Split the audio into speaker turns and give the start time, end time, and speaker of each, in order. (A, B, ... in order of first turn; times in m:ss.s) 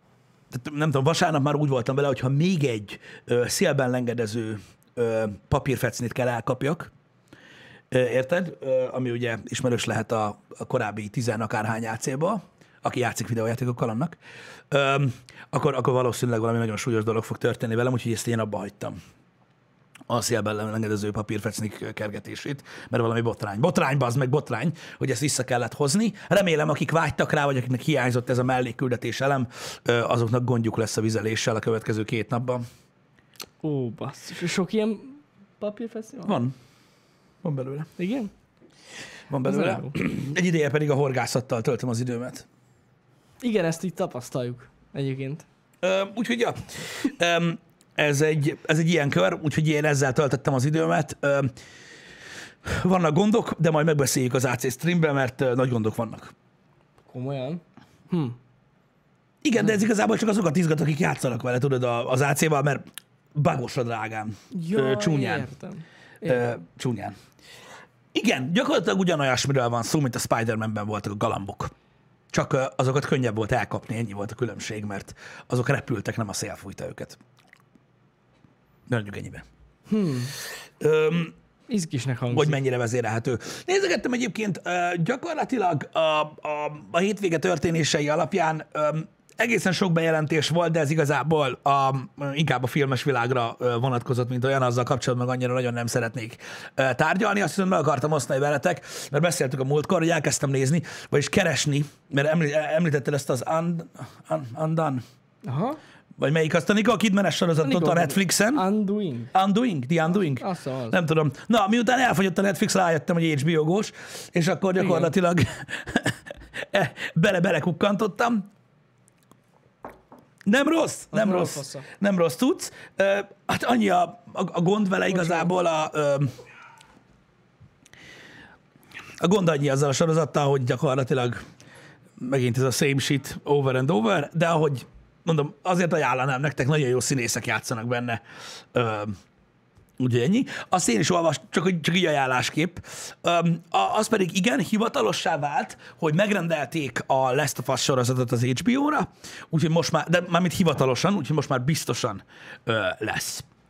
0:00.5-0:06.9 A
0:07.9-0:14.2 A
0:14.7-0:19.0 A
0:20.1-0:32.6 A
0:33.6-0:36.4 B
0:36.2-0:36.5 A
0:37.4-0:37.9 A
0:38.0-0:38.3 B
0:39.3-0:42.4 A
0:39.4-0:39.9 B
0:43.4-0:45.4 B
0:45.8-0:51.5 A
0:52.6-0:56.3 A
0:57.0-0:58.4 B
0:59.4-1:02.8 A
1:03.3-1:05.5 A
1:04.5-1:06.5 B
1:06.2-1:07.1 A
1:08.1-1:11.7 A
1:12.3-1:17.2 A
1:18.9-1:19.4 A
1:19.9-1:20.3 B
1:20.8-1:21.3 A
1:21.7-1:22.6 B
1:22.3-1:45.0 A
1:45.4-1:45.8 B
1:46.2-1:48.6 A
1:47.6-1:49.3 B
1:49.3-1:58.5 A
1:50.1-1:51.0 B
1:54.8-1:55.1 B
2:00.4-2:06.4 A
2:01.1-2:01.8 B
2:05.1-2:05.5 B
2:09.2-2:11.4 A
2:12.2-2:18.2 A
2:18.7-2:19.2 A
2:20.0-2:33.4 A